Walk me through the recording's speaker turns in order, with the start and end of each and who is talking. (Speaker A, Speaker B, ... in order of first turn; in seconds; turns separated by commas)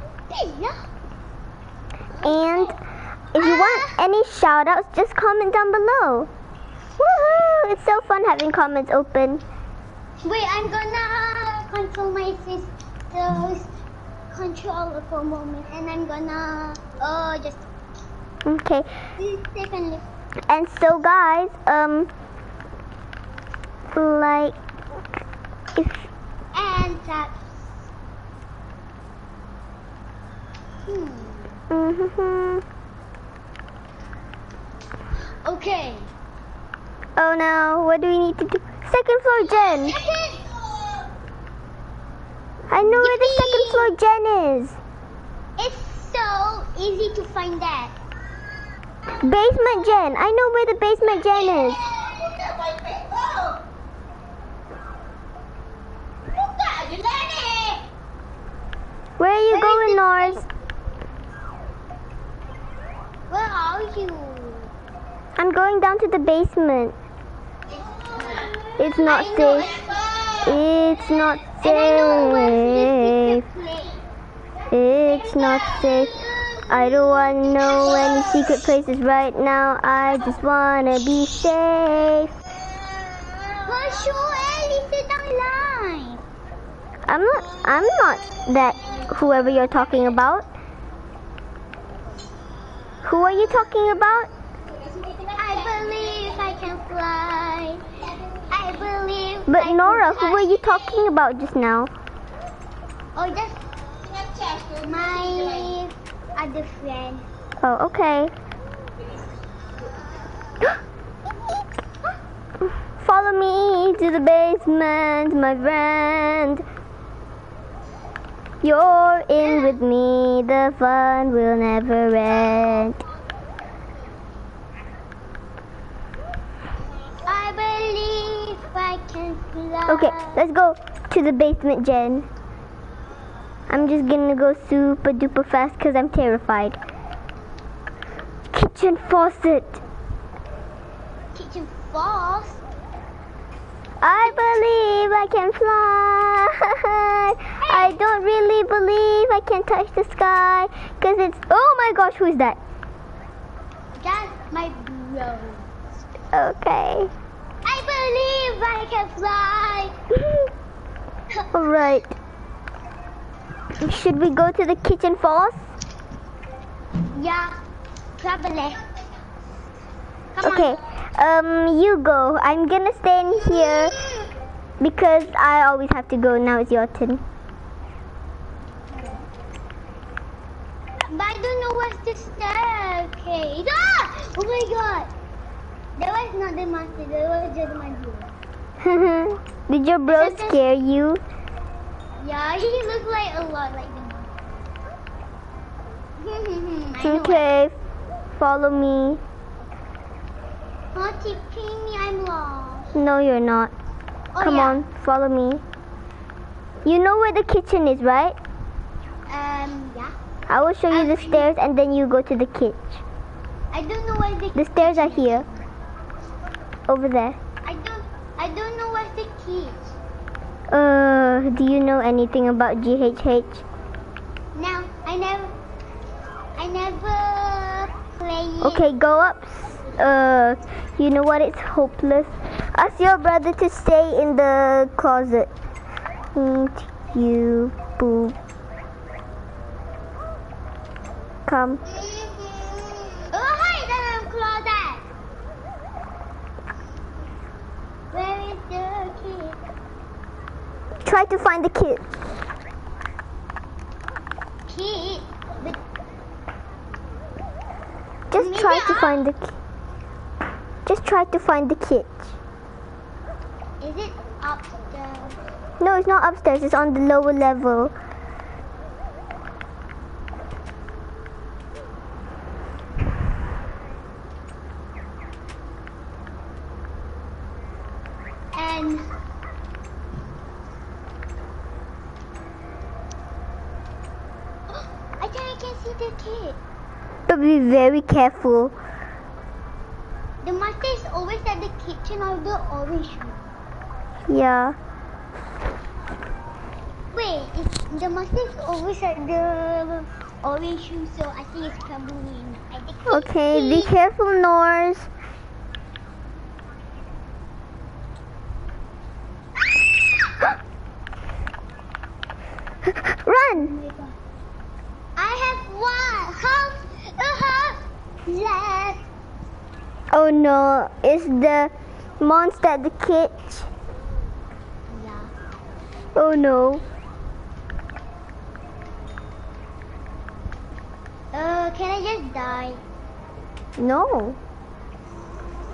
Speaker A: 0.3-0.8, Speaker A: 2.1-2.7, Speaker B: 2.2-2.8, Speaker B: 3.3-6.3, Speaker A: 3.3-4.0, Speaker B: 7.0-9.4, Speaker A: 10.2-13.7, Speaker A: 14.3-17.7, Speaker B: 18.4-19.0, Speaker A: 19.2-20.0, Speaker B: 20.5-22.1, Speaker B: 23.9-24.6, Speaker B: 25.8-26.1, Speaker A: 26.5-27.7, Speaker A: 30.8-31.6, Speaker B: 31.7-32.6, Speaker A: 35.4-36.1, Speaker B: 37.2-40.0, Speaker A: 39.5-41.0, Speaker B: 42.7-44.8, Speaker A: 42.8-43.9, Speaker A: 45.6-47.9, Speaker B: 49.2-51.8, Speaker A: 51.9-53.4, Speaker A: 56.6-57.8, Speaker B: 59.2-60.4, Speaker A: 59.5-60.5, Speaker A: 63.3-64.7, Speaker B: 65.4-67.0, Speaker A: 67.7-70.6, Speaker B: 68.8-69.7, Speaker B: 70.4-73.4, Speaker A: 71.4-74.0, Speaker B: 74.7-82.3, Speaker A: 75.1-78.7, Speaker A: 83.6-86.2, Speaker B: 87.1-90.5, Speaker B: 93.0-94.3, Speaker A: 95.2-101.0, Speaker B: 99.5-101.9, Speaker A: 103.1-103.6, Speaker A: 104.3-107.3, Speaker B: 107.6-108.3, Speaker B: 112.9-116.6, Speaker B: 118.6-123.0, Speaker A: 119.4-119.8, Speaker A: 127.2-130.4, Speaker B: 129.9-132.3, Speaker B: 133.7-136.8, Speaker B: 138.5-139.8, Speaker A: 141.3-142.6, Speaker B: 144.0-152.6, Speaker A: 147.6-147.9, Speaker A: 153.9-155.7, Speaker B: 156.3-157.1, Speaker A: 157.6-160.0, Speaker B: 161.5-162.2, Speaker B: 163.8-165.7, Speaker A: 167.1-167.6, Speaker A: 168.2-168.8, Speaker A: 170.3-170.8, Speaker B: 170.4-173.9, Speaker A: 173.3-174.3, Speaker B: 174.8-177.2, Speaker A: 178.9-179.3, Speaker A: 181.1-185.1, Speaker A: 186.0-188.3, Speaker B: 188.8-191.2, Speaker A: 190.1-190.6, Speaker A: 192.2-194.3, Speaker A: 196.2-197.4, Speaker B: 197.0-197.8, Speaker B: 198.4-199.2, Speaker A: 200.9-202.9, Speaker B: 202.9-203.7, Speaker A: 204.3-204.8, Speaker B: 204.4-205.6, Speaker B: 206.8-208.4, Speaker A: 209.3-210.1, Speaker B: 210.5-213.0, Speaker A: 210.9-211.5, Speaker A: 213.7-215.6, Speaker B: 214.6-215.4, Speaker B: 216.9-217.4, Speaker A: 217.6-219.9, Speaker B: 220.7-223.6, Speaker A: 224.6-225.6, Speaker A: 226.6-228.9, Speaker B: 228.6-235.5, Speaker B: 236.3-238.3, Speaker B: 241.5-241.8, Speaker A: 241.9-245.0, Speaker A: 248.1-249.6, Speaker B: 251.0-252.0, Speaker A: 254.7-255.8, Speaker B: 258.3-259.6, Speaker A: 258.3-259.2, Speaker B: 260.9-262.3, Speaker A: 263.8-265.4, Speaker B: 265.8-267.9, Speaker A: 278.5-279.1, Speaker A: 284.7-286.6, Speaker B: 287.3-288.8, Speaker A: 290.4-293.4, Speaker B: 294.3-294.8, Speaker A: 297.1-303.9, Speaker B: 303.1-305.1, Speaker B: 312.9-313.7, Speaker A: 313.5-314.1, Speaker A: 315.1-319.1, Speaker B: 320.1-323.7, Speaker A: 324.9-325.3, Speaker B: 326.1-326.8, Speaker A: 331.3-332.8, Speaker B: 333.8-334.4